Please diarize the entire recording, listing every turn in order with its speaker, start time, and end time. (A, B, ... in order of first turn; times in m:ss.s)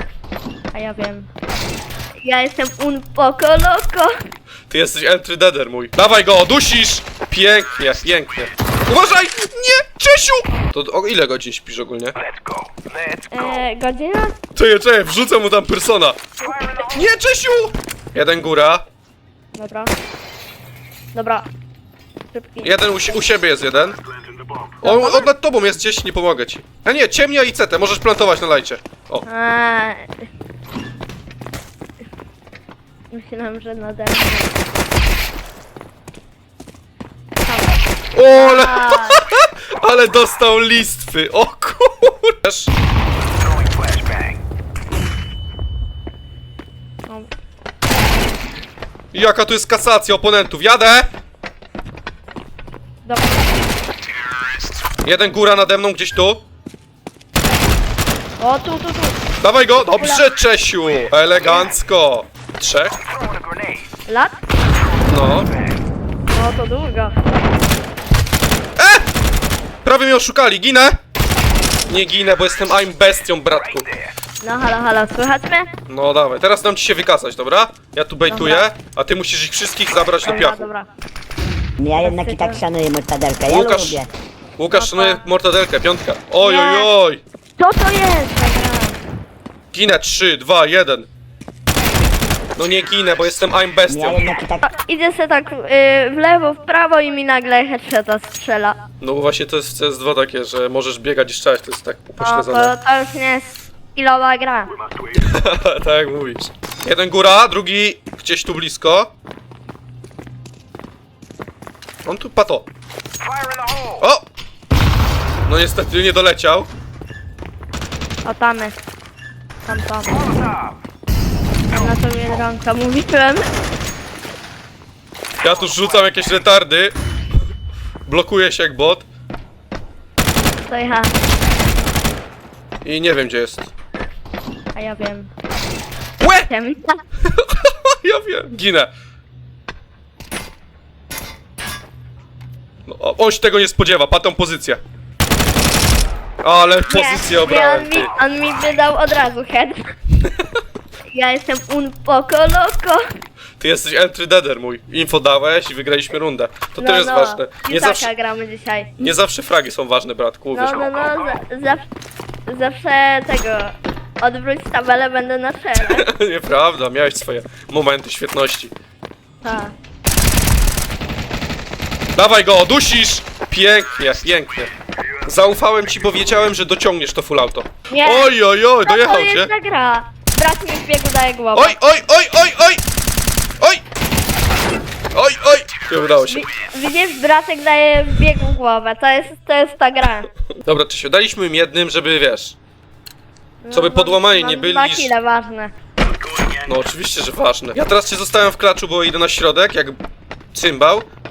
0:00.7-0:01.3 A
0:02.2-0:04.1 A
0:04.7-0:12.2 B
0:13.3-0:14.4 A
0:14.6-0:16.2 B
0:16.9-0:18.8 B
0:19.6-0:19.9 A
0:21.1-0:21.5 A
0:22.3-0:22.9 A
0:22.6-0:24.0 B
0:24.8-0:25.3 A
0:24.8-0:29.3 B
0:29.3-0:30.1 A
0:33.1-0:34.5 A
0:37.4-0:37.8 A
0:38.1-0:42.7 B
0:38.3-0:39.2 A
0:49.1-0:51.1 B
0:53.0-0:53.4 A
0:55.0-0:56.4 B
0:55.1-0:55.5 A
0:58.4-0:59.2 A
0:59.4-1:03.0 B
0:59.8-1:00.2 A
1:01.5-1:01.7 A
1:04.1-1:04.4 A
1:05.1-1:05.5 B
1:06.3-1:07.2 A
1:08.8-1:09.1 B
1:09.8-1:11.0 B
1:11.9-1:13.9 B
1:14.4-1:15.7 A
1:15.9-1:20.7 B
1:18.3-1:18.7 A
1:20.2-1:20.9 A
1:21.8-1:24.1 C
1:22.0-1:22.6 A
1:23.5-1:24.0 B
1:24.6-1:27.2 B
1:24.7-1:25.2 A
1:26.4-1:26.9 A
1:27.6-1:29.0 A
1:29.7-1:31.1 B
1:32.6-1:34.4 B
1:33.9-1:34.7 C
1:34.6-1:38.8 A
1:39.0-1:42.7 B
1:42.2-1:44.7 A
1:45.1-1:49.1 B
1:52.0-1:52.7 B
1:54.0-1:54.2 B
1:55.5-1:56.7 B
1:58.2-1:58.8 A
1:59.7-2:00.3 A
2:01.7-2:03.5 A
2:05.4-2:06.9 B
2:08.1-2:09.0 B
2:10.6-2:11.1 A
2:12.8-2:13.7 B
2:14.8-2:15.3 A
2:16.2-2:16.5 B
2:16.5-2:17.0 A
2:17.3-2:18.9 B
2:22.9-2:24.8 B
2:26.4-2:28.1 B
2:26.9-2:30.0 A
2:31.1-2:33.0 A
2:33.6-2:38.1 B
2:36.8-2:38.9 A
2:39.0-2:40.8 B
2:40.5-2:41.9 A
2:42.5-2:46.1 A
2:45.8-2:48.7 B
2:49.4-2:49.7 A
2:52.2-2:54.7 B
2:55.2-2:59.5 B
2:57.9-3:01.8 A
3:01.5-3:02.8 B
3:05.1-3:06.5 B
3:06.3-3:10.3 A
3:10.6-3:12.6 B
3:13.6-3:15.7 A
3:13.7-3:15.1 B
3:16.6-3:20.0 B
3:20.5-3:21.1 B